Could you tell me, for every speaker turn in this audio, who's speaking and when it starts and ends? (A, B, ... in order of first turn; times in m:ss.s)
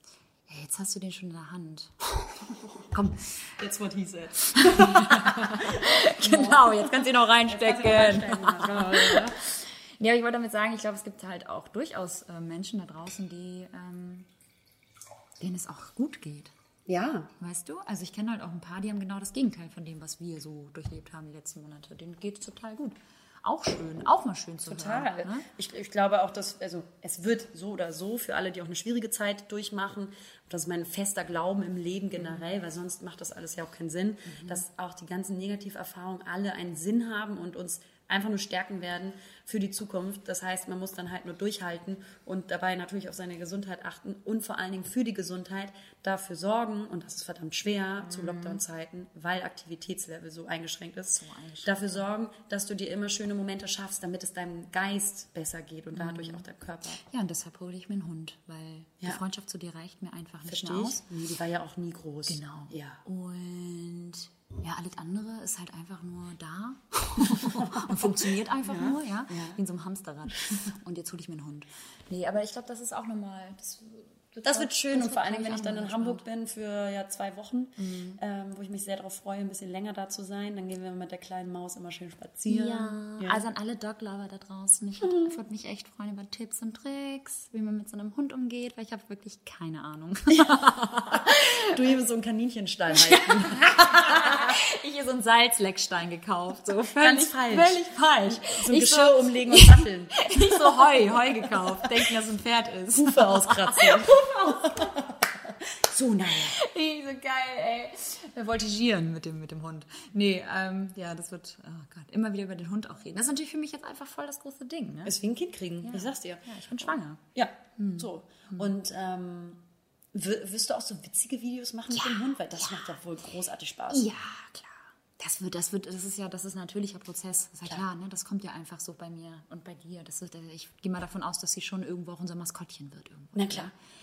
0:00.5-0:03.1 A
0:02.9-0:09.4 B
0:04.5-0:14.3 A
0:15.4-0:16.5 A
0:16.9-0:17.3 B
0:17.4-0:25.4 A
0:24.6-0:57.0 B
0:32.2-0:32.4 A
0:34.3-0:34.6 A
0:48.0-0:48.6 A
0:51.1-0:52.0 A
0:55.9-0:56.4 A
0:57.1-1:01.0 A
1:00.5-1:03.0 B
1:02.3-1:16.2 A
1:07.2-1:09.6 B
1:14.4-1:23.4 B
1:17.8-1:18.2 A
1:22.5-1:31.8 A
1:25.0-1:25.3 B
1:30.3-1:34.5 B
1:32.9-1:45.0 A
1:37.0-1:42.1 B
1:42.9-1:46.6 B
1:46.6-1:55.1 A
1:55.0-1:59.6 B
1:55.8-1:57.2 A
1:57.8-1:58.7 A
2:00.1-2:04.1 B
2:01.9-2:03.0 A
2:03.9-2:13.7 A
2:13.3-2:13.7 B